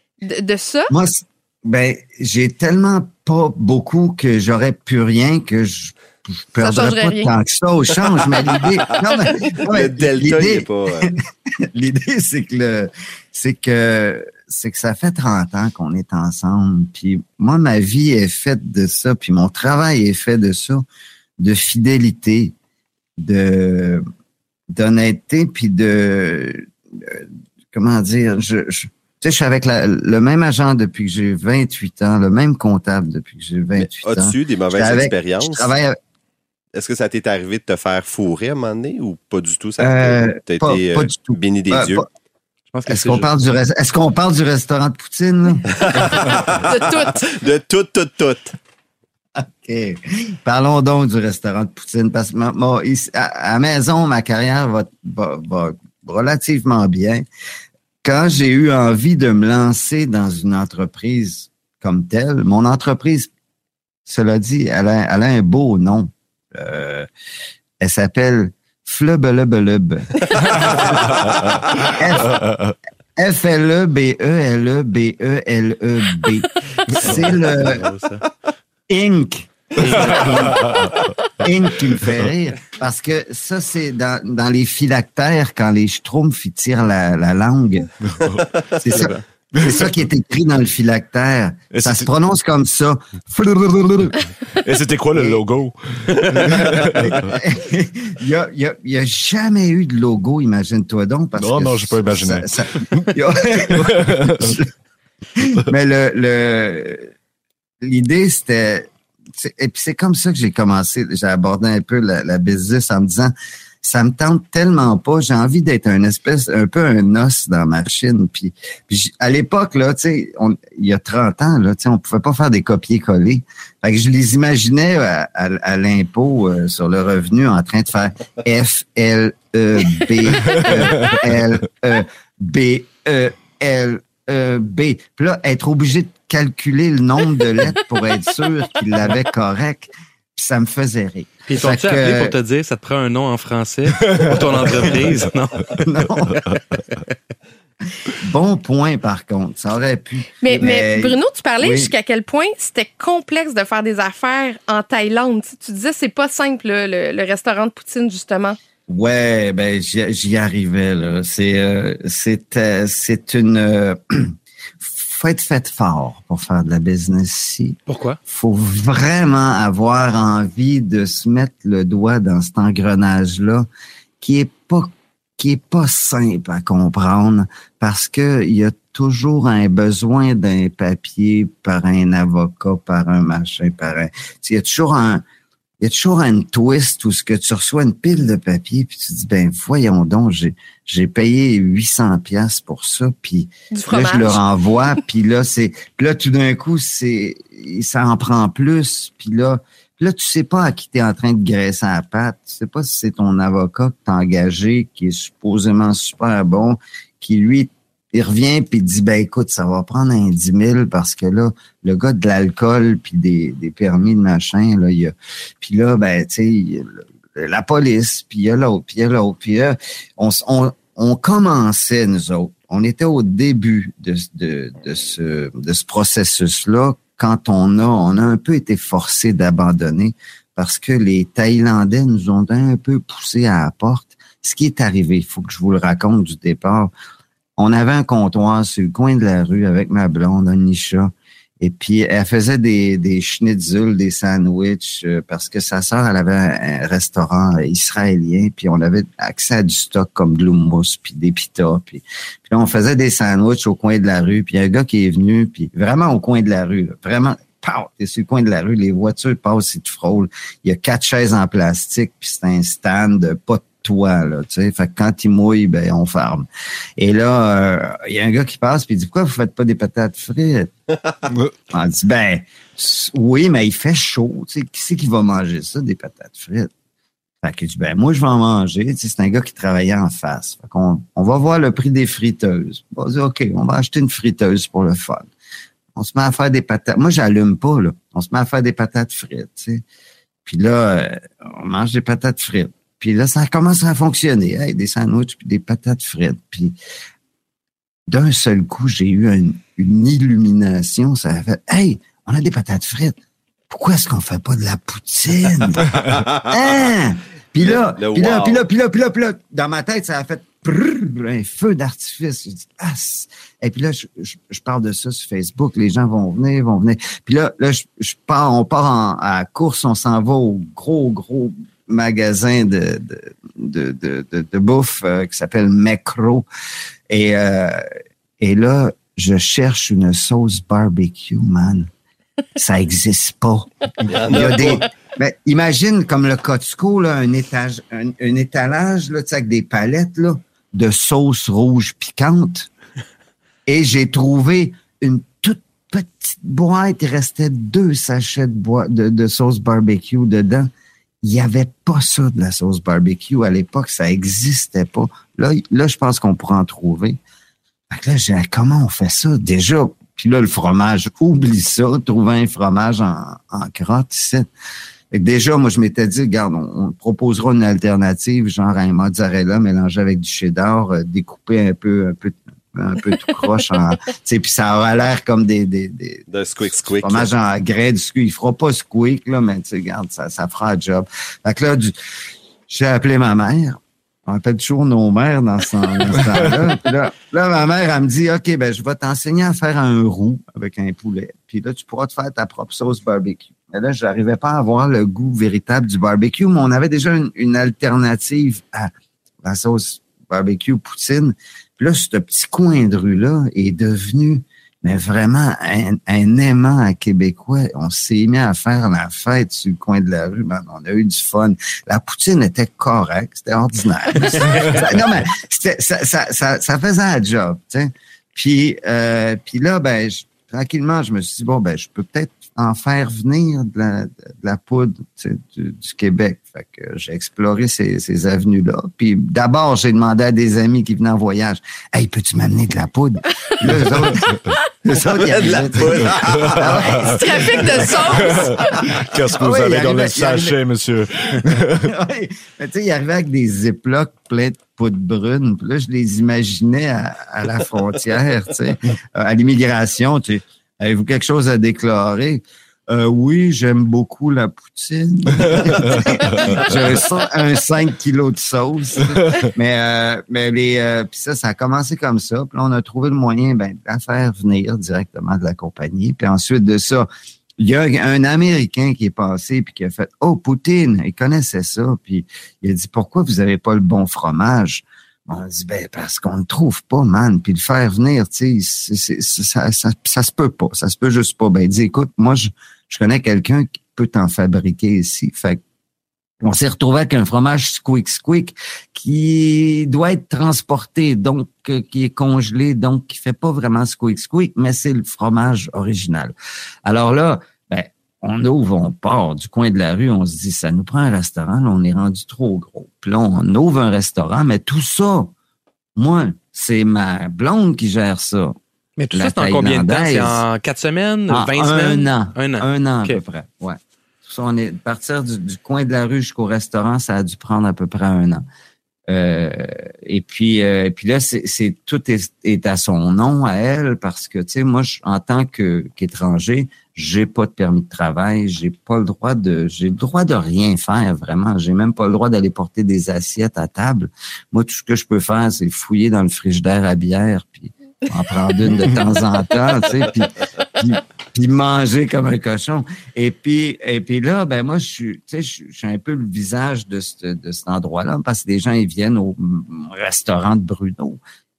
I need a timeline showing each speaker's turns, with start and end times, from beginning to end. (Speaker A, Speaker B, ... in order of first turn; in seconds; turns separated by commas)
Speaker A: 0.2-0.9, Speaker B: 0.9-11.2, Speaker A: 6.6-7.3, Speaker C: 9.6-11.1, Speaker B: 11.7-20.9, Speaker B: 21.4-22.5, Speaker B: 23.2-24.0, Speaker B: 24.7-36.0, Speaker C: 33.8-35.7, Speaker C: 36.7-42.0, Speaker B: 39.8-42.0, Speaker D: 42.7-43.3, Speaker B: 42.9-46.4, Speaker C: 45.7-48.5, Speaker A: 46.6-47.3, Speaker B: 49.4-57.2, Speaker B: 58.0-63.3, Speaker B: 64.0-67.1, Speaker B: 67.8-72.4, Speaker E: 70.5-71.5, Speaker E: 72.3-72.7, Speaker B: 73.2-77.9, Speaker D: 77.0-78.2, Speaker B: 78.9-80.6, Speaker E: 79.8-81.0, Speaker D: 80.1-80.6, Speaker B: 81.4-87.9, Speaker E: 88.1-88.4, Speaker B: 88.8-94.2, Speaker D: 88.9-89.2, Speaker E: 89.6-89.9, Speaker E: 91.7-92.1, Speaker E: 94.5-97.3, Speaker B: 95.1-95.4, Speaker B: 96.3-104.7, Speaker E: 101.4-104.6, Speaker B: 105.5-107.1, Speaker B: 107.8-142.3, Speaker E: 130.5-130.8, Speaker D: 141.5-147.0, Speaker E: 144.0-144.3, Speaker B: 145.8-146.4, Speaker B: 148.2-151.9, Speaker A: 150.4-158.6, Speaker B: 158.9-173.7, Speaker D: 167.9-168.2, Speaker B: 174.2-185.2, Speaker B: 185.8-236.9, Speaker A: 193.7-194.4, Speaker B: 237.6-270.7, Speaker B: 271.7-276.7, Speaker B: 277.4-285.3, Speaker B: 285.9-289.8, Speaker B: 290.4-296.8, Speaker B: 298.1-303.2, Speaker B: 303.7-326.5, Speaker C: 306.1-306.5, Speaker C: 307.6-308.6, Speaker B: 327.1-327.9, Speaker B: 328.4-331.9, Speaker B: 332.6-342.7, Speaker C: 334.1-334.9, Speaker B: 343.6-350.7, Speaker B: 351.2-357.2, Speaker B: 357.9-364.5, Speaker B: 365.1-381.9, Speaker C: 376.3-377.3, Speaker B: 382.7-398.9, Speaker B: 399.4-438.5, Speaker E: 414.4-414.9, Speaker E: 433.7-434.4, Speaker C: 435.1-436.7, Speaker E: 436.0-437.1, Speaker A: 437.0-438.6, Speaker E: 437.9-441.9, Speaker B: 439.3-440.6, Speaker B: 441.4-485.6, Speaker E: 455.4-456.7, Speaker B: 486.4-505.3, Speaker B: 505.9-508.6, Speaker D: 509.0-513.2, Speaker B: 509.1-510.4, Speaker B: 511.3-518.5, Speaker B: 519.1-551.2